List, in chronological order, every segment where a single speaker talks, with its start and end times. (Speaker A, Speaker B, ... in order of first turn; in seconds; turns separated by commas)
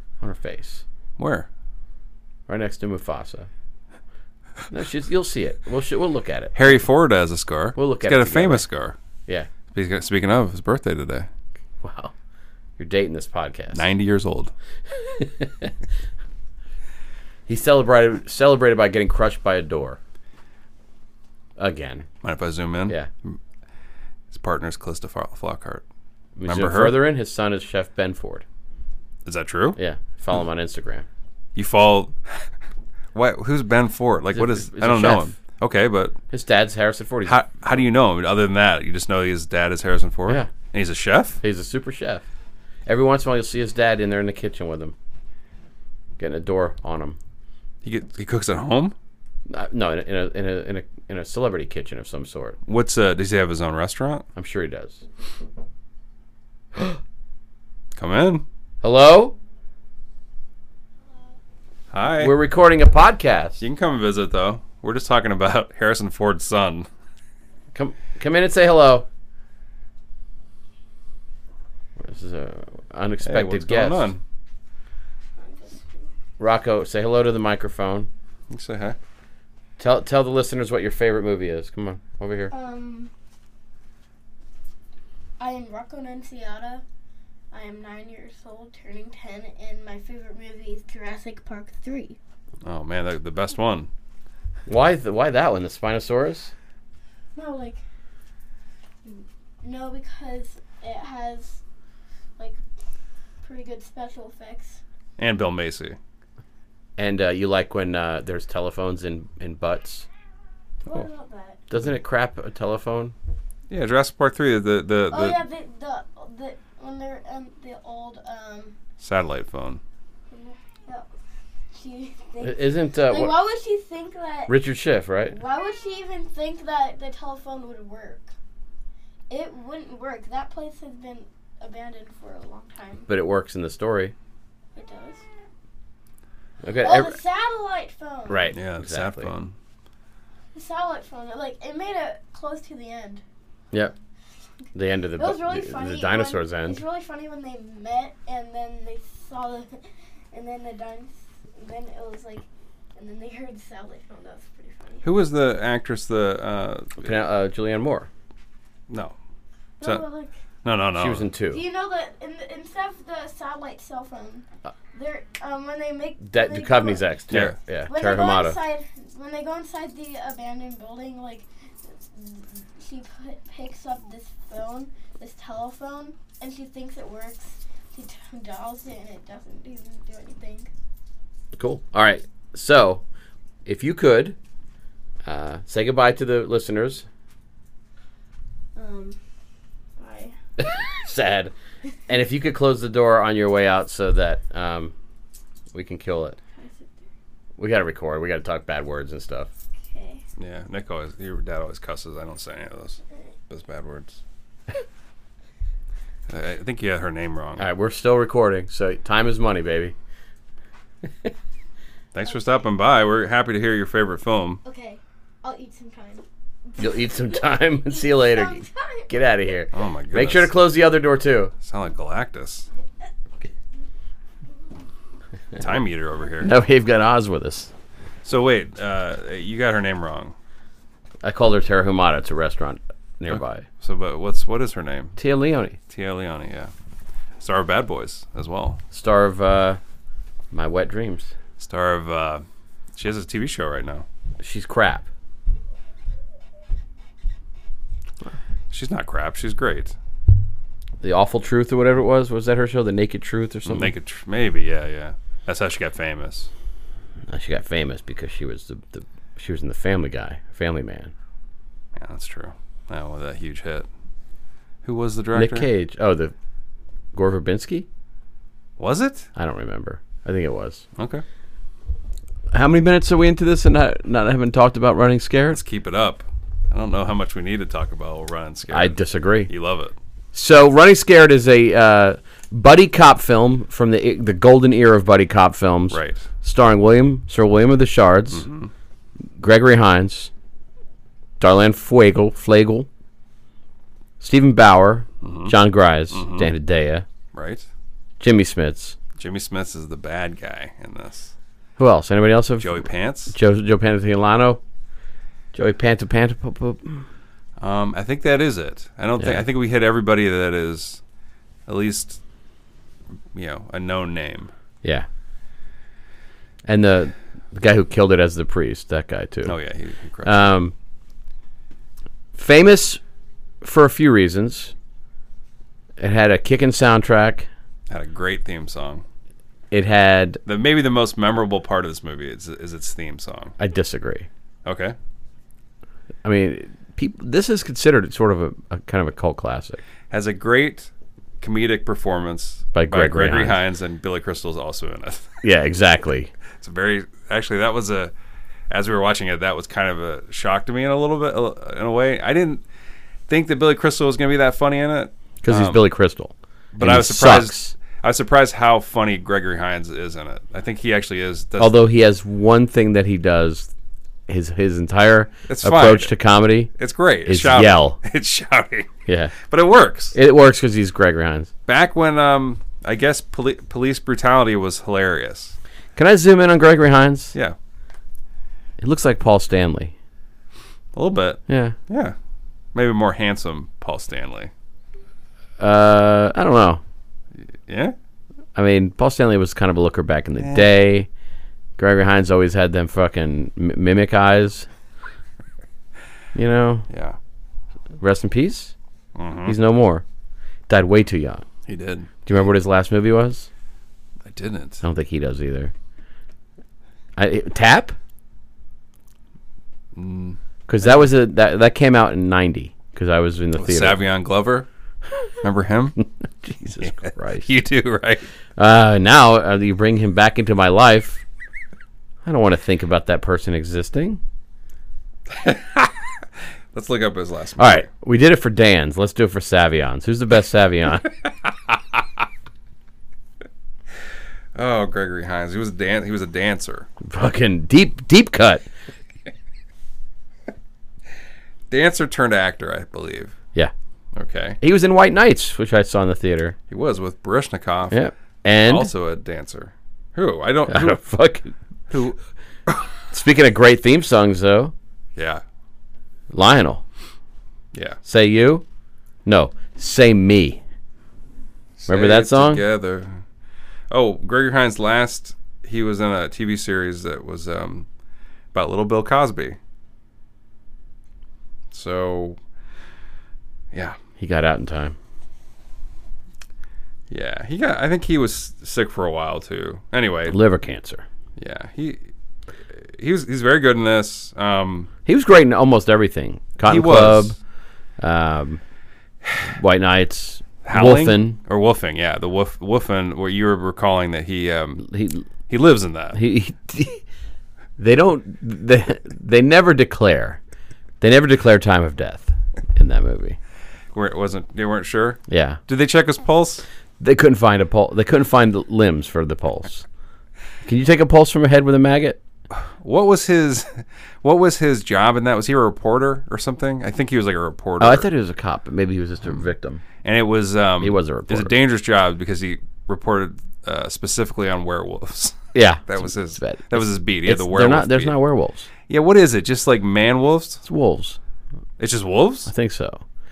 Speaker A: 0.2-0.8, Speaker B: 1.2-1.5, Speaker A: 2.5-3.5, Speaker A: 4.7-6.8, Speaker B: 6.5-8.9, Speaker A: 7.8-8.6, Speaker B: 9.7-11.3, Speaker A: 11.8-12.1, Speaker A: 12.8-13.8, Speaker B: 13.7-14.5, Speaker A: 15.0-15.7, Speaker A: 17.5-20.0, Speaker A: 21.6-22.1, Speaker B: 22.2-23.4, Speaker B: 24.3-25.8, Speaker A: 26.4-28.4, Speaker B: 26.5-27.0, Speaker B: 29.2-29.8, Speaker A: 29.8-31.1, Speaker B: 31.6-32.5, Speaker B: 33.1-36.1, Speaker A: 34.3-35.3, Speaker A: 36.3-37.4, Speaker B: 37.2-41.4, Speaker A: 41.4-42.2, Speaker A: 42.9-44.9, Speaker A: 46.2-47.2, Speaker B: 47.8-48.9, Speaker A: 49.5-52.6, Speaker B: 52.7-54.2, Speaker A: 54.4-55.0, Speaker B: 58.0-58.4, Speaker A: 58.8-59.4, Speaker B: 61.9-62.3, Speaker A: 62.2-63.6, Speaker B: 63.6-66.9, Speaker A: 67.7-69.0, Speaker A: 72.0-74.1, Speaker B: 73.2-74.2, Speaker C: 75.4-76.1, Speaker A: 76.4-78.1, Speaker B: 78.5-79.0, Speaker A: 79.8-82.5, Speaker C: 82.5-83.1, Speaker C: 85.4-86.8, Speaker C: 87.5-92.2, Speaker B: 92.6-93.9, Speaker A: 94.7-96.5, Speaker C: 97.3-97.8, Speaker C: 99.0-101.6, Speaker C: 103.4-104.8, Speaker B: 105.2-106.0, Speaker A: 107.0-110.1, Speaker C: 110.8-111.6, Speaker A: 111.7-113.1, Speaker B: 113.7-115.4, Speaker C: 115.1-118.7, Speaker B: 119.0-119.8, Speaker C: 120.3-121.1, Speaker C: 121.7-124.5, Speaker A: 122.4-123.4, Speaker A: 124.5-125.4, Speaker C: 125.3-128.3, Speaker C: 129.3-133.1, Speaker A: 133.1-134.1, Speaker C: 134.7-135.2, Speaker A: 136.6-137.2, Speaker C: 136.8-138.5, Speaker A: 138.3-139.3, Speaker B: 138.5-139.5, Speaker C: 140.5-143.2, Speaker A: 144.7-146.8, Speaker C: 145.2-152.4, Speaker C: 152.9-155.0, Speaker B: 155.0-157.1, Speaker A: 157.0-158.1, Speaker B: 158.9-159.1, Speaker C: 159.8-160.3, Speaker B: 160.6-161.3, Speaker A: 160.9-161.6, Speaker C: 161.5-167.1, Speaker A: 166.2-168.6, Speaker B: 167.3-167.6, Speaker C: 167.8-180.7, Speaker A: 181.5-183.0, Speaker A: 183.7-184.3, Speaker A: 185.2-187.0, Speaker C: 188.8-189.2, Speaker C: 190.0-190.3, Speaker A: 190.6-191.5, Speaker A: 192.1-194.9, Speaker A: 195.7-196.4, Speaker C: 196.6-197.0, Speaker A: 197.6-199.5, Speaker C: 199.8-200.2, Speaker B: 200.4-204.2, Speaker B: 206.3-207.7, Speaker A: 207.6-209.9, Speaker B: 212.1-214.6, Speaker C: 214.6-217.2, Speaker A: 216.8-221.5, Speaker C: 217.9-219.1, Speaker B: 219.7-220.5, Speaker B: 221.6-222.7, Speaker B: 225.6-226.5, Speaker A: 226.4-227.7, Speaker B: 228.2-230.3, Speaker A: 231.2-233.6, Speaker B: 233.3-235.2, Speaker A: 235.2-235.8, Speaker B: 235.9-236.7, Speaker B: 237.4-238.8, Speaker A: 238.9-239.8, Speaker A: 240.5-241.3, Speaker B: 241.6-242.4, Speaker B: 242.9-244.0, Speaker A: 244.4-245.1, Speaker B: 248.7-249.9, Speaker A: 251.0-253.9, Speaker B: 253.7-256.5, Speaker A: 257.3-261.1, Speaker B: 261.9-263.9, Speaker B: 264.8-265.7, Speaker A: 265.3-266.3, Speaker A: 267.1-267.9, Speaker B: 268.8-269.3, Speaker A: 269.4-270.8, Speaker B: 271.0-271.2, Speaker A: 272.5-275.6, Speaker B: 275.5-279.9, Speaker A: 278.7-279.5, Speaker A: 280.3-288.4, Speaker B: 285.9-286.2, Speaker B: 288.3-288.7, Speaker A: 289.4-290.3, Speaker A: 291.4-292.9, Speaker A: 294.2-297.0, Speaker B: 295.2-295.5, Speaker B: 296.1-296.5, Speaker B: 297.3-297.6, Speaker A: 298.2-298.9, Speaker B: 299.2-301.3, Speaker A: 301.8-304.6, Speaker B: 302.6-303.3, Speaker A: 305.5-307.1, Speaker B: 307.6-311.0, Speaker A: 309.2-309.4, Speaker B: 311.7-312.2, Speaker B: 313.3-314.5, Speaker A: 316.6-319.5, Speaker B: 319.4-320.5, Speaker A: 320.2-320.7, Speaker A: 322.3-323.0, Speaker A: 323.6-324.7, Speaker A: 326.0-327.5, Speaker B: 327.9-329.0, Speaker A: 329.7-330.4, Speaker B: 330.4-333.5, Speaker A: 333.6-334.3, Speaker B: 334.6-334.9, Speaker A: 336.2-339.8, Speaker B: 340.1-340.9, Speaker B: 341.4-345.4, Speaker A: 342.7-343.6, Speaker A: 345.4-346.3, Speaker B: 346.6-348.1, Speaker B: 348.7-352.6, Speaker B: 353.3-355.8, Speaker A: 355.4-357.7, Speaker B: 356.7-361.8, Speaker A: 361.6-363.7, Speaker A: 364.3-366.7, Speaker B: 365.5-366.1, Speaker B: 366.7-370.1, Speaker A: 367.2-368.0, Speaker A: 369.1-369.3, Speaker A: 370.1-371.5, Speaker B: 371.7-375.6, Speaker A: 375.9-377.3, Speaker A: 378.8-379.9, Speaker B: 380.9-382.1, Speaker A: 381.5-381.8, Speaker B: 382.7-384.5, Speaker A: 385.6-386.8, Speaker B: 387.7-387.9, Speaker A: 388.6-391.1, Speaker A: 391.8-394.7, Speaker A: 396.3-396.9, Speaker B: 396.9-397.2, Speaker A: 398.0-398.7, Speaker B: 399.1-399.6, Speaker A: 399.4-400.0, Speaker A: 400.7-401.4, Speaker B: 401.7-402.1, Speaker A: 402.2-403.5, Speaker B: 404.2-404.8, Speaker A: 404.8-405.7, Speaker A: 407.2-407.9, Speaker B: 409.9-410.4, Speaker A: 410.7-414.0, Speaker B: 413.6-414.7, Speaker B: 415.4-416.0, Speaker A: 416.4-417.4, Speaker B: 416.6-418.3, Speaker A: 418.6-421.2, Speaker A: 422.2-424.2, Speaker B: 425.3-425.9, Speaker B: 426.7-427.9, Speaker A: 427.6-431.1, Speaker B: 434.5-436.9, Speaker A: 437.0-438.6, Speaker B: 441.7-443.4, Speaker B: 444.1-444.6, Speaker A: 444.6-446.6, Speaker B: 446.7-448.0, Speaker A: 447.9-448.9, Speaker B: 448.6-451.0, Speaker A: 450.7-451.5, Speaker B: 451.9-452.2, Speaker A: 453.1-454.7, Speaker B: 455.1-455.4, Speaker A: 456.3-456.8, Speaker B: 457.7-458.0, Speaker A: 458.0-458.6, Speaker A: 459.2-460.6, Speaker B: 461.8-463.2, Speaker A: 461.9-462.6, Speaker B: 463.9-467.9, Speaker B: 468.5-469.6, Speaker B: 471.7-472.4, Speaker A: 474.2-474.9, Speaker B: 477.1-480.4, Speaker A: 480.3-481.0, Speaker B: 481.4-482.0, Speaker B: 482.7-484.9, Speaker A: 485.1-487.4, Speaker B: 486.6-487.3, Speaker A: 488.0-488.6, Speaker A: 489.5-491.4, Speaker B: 490.6-494.9, Speaker A: 494.8-495.3, Speaker B: 495.5-496.2, Speaker A: 496.1-497.0, Speaker A: 497.8-500.4, Speaker A: 501.0-503.4, Speaker B: 503.9-506.6, Speaker A: 505.3-505.6, Speaker A: 507.0-509.8, Speaker A: 510.6-512.2, Speaker B: 512.6-518.1, Speaker A: 517.8-519.8, Speaker B: 520.0-528.1, Speaker A: 520.8-521.5, Speaker A: 525.5-528.7, Speaker B: 528.9-530.6, Speaker A: 530.6-531.2, Speaker B: 531.8-532.5, Speaker A: 532.5-533.0